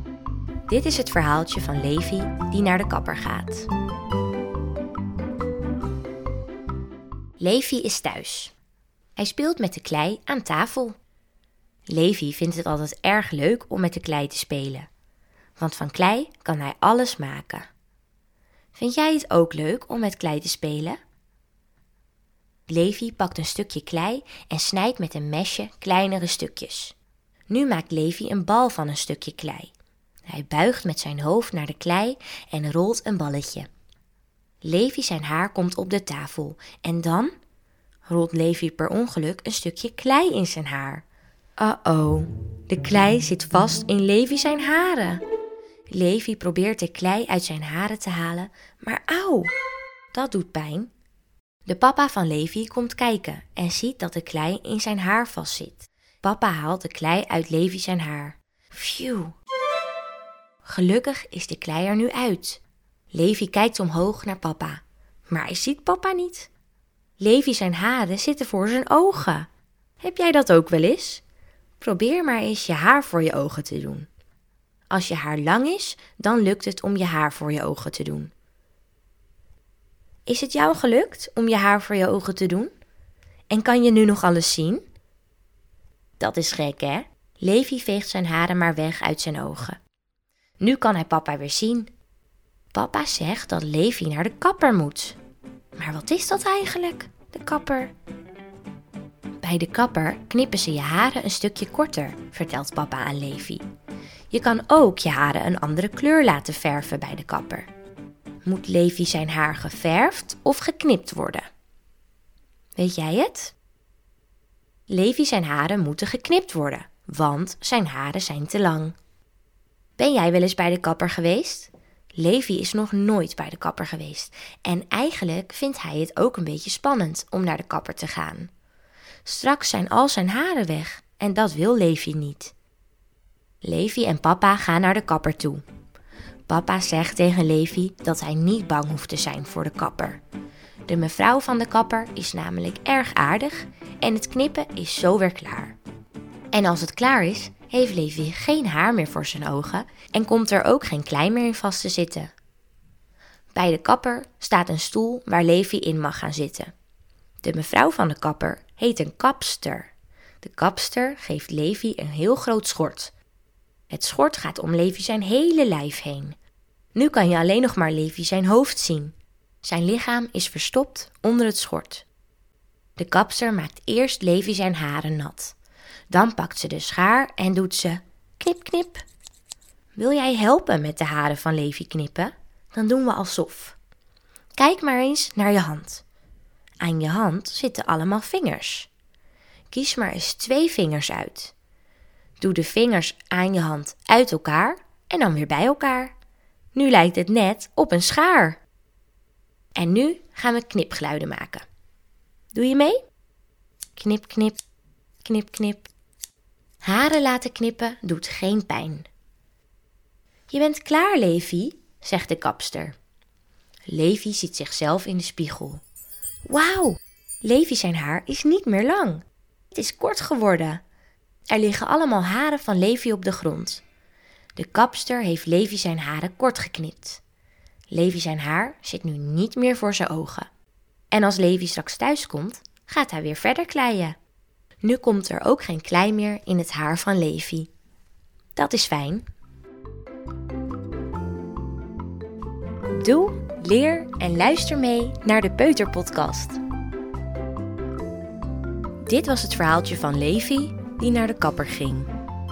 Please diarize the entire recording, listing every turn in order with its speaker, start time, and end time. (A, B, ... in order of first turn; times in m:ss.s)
0:00.7-0:03.7 A
0:07.4-0:08.5 A
0:09.2-0:11.0 A
0:11.9-0:14.9 A
0:15.6-0:17.7 A
0:18.7-0:21.0 A
0:22.7-0:27.0 A
0:27.5-0:29.7 A
0:30.3-0:33.7 A
0:34.6-0:37.4 A
0:38.1-0:41.0 A
0:41.6-0:45.2 A
0:45.9-0:49.5 A
0:50.1-0:50.9 A
0:51.6-0:59.4 A
1:00.6-1:02.6 A
1:03.1-1:06.5 A
1:07.2-1:09.5 A
1:10.0-1:11.2 A
1:11.8-1:14.1 A
1:14.9-1:18.3 A
1:20.3-1:22.7 A
1:23.5-1:24.8 A
1:26.2-1:29.8 A
1:30.6-1:31.9 A
1:32.7-1:35.2 A
1:35.8-1:37.9 A
1:39.4-1:43.6 A
1:44.3-1:47.7 A
1:48.4-1:51.5 A
1:52.8-1:53.5 A
1:54.9-1:58.9 A
2:00.0-2:08.5 A
2:09.2-2:12.5 A
2:13.6-2:15.6 A
2:16.5-2:20.2 A
2:20.9-2:25.8 A
2:26.5-2:32.3 A
2:33.5-2:36.7 A
2:37.4-2:39.9 A
2:40.4-2:43.1 A
2:43.9-2:46.3 A
2:46.9-2:52.0 A
2:53.0-2:55.5 A
2:56.1-2:59.0 A
2:59.9-3:03.8 A
3:04.5-3:06.0 A
3:06.8-3:08.9 A
3:09.7-3:11.5 A
3:12.4-3:16.1 A
3:16.7-3:18.6 A
3:19.7-3:21.6 A
3:22.5-3:23.0 A
3:24.0-3:24.6 A
3:25.2-3:25.9 A
3:26.8-3:29.1 A
3:30.5-3:33.0 A
3:33.9-3:35.8 A
3:36.4-3:40.8 A
3:41.5-3:43.8 A
3:44.6-3:47.2 A
3:47.9-3:50.5 A
3:51.1-3:54.2 A
3:54.8-3:57.7 A
3:58.5-3:59.2 A
4:03.0-4:06.6 A
4:09.0-4:12.1 A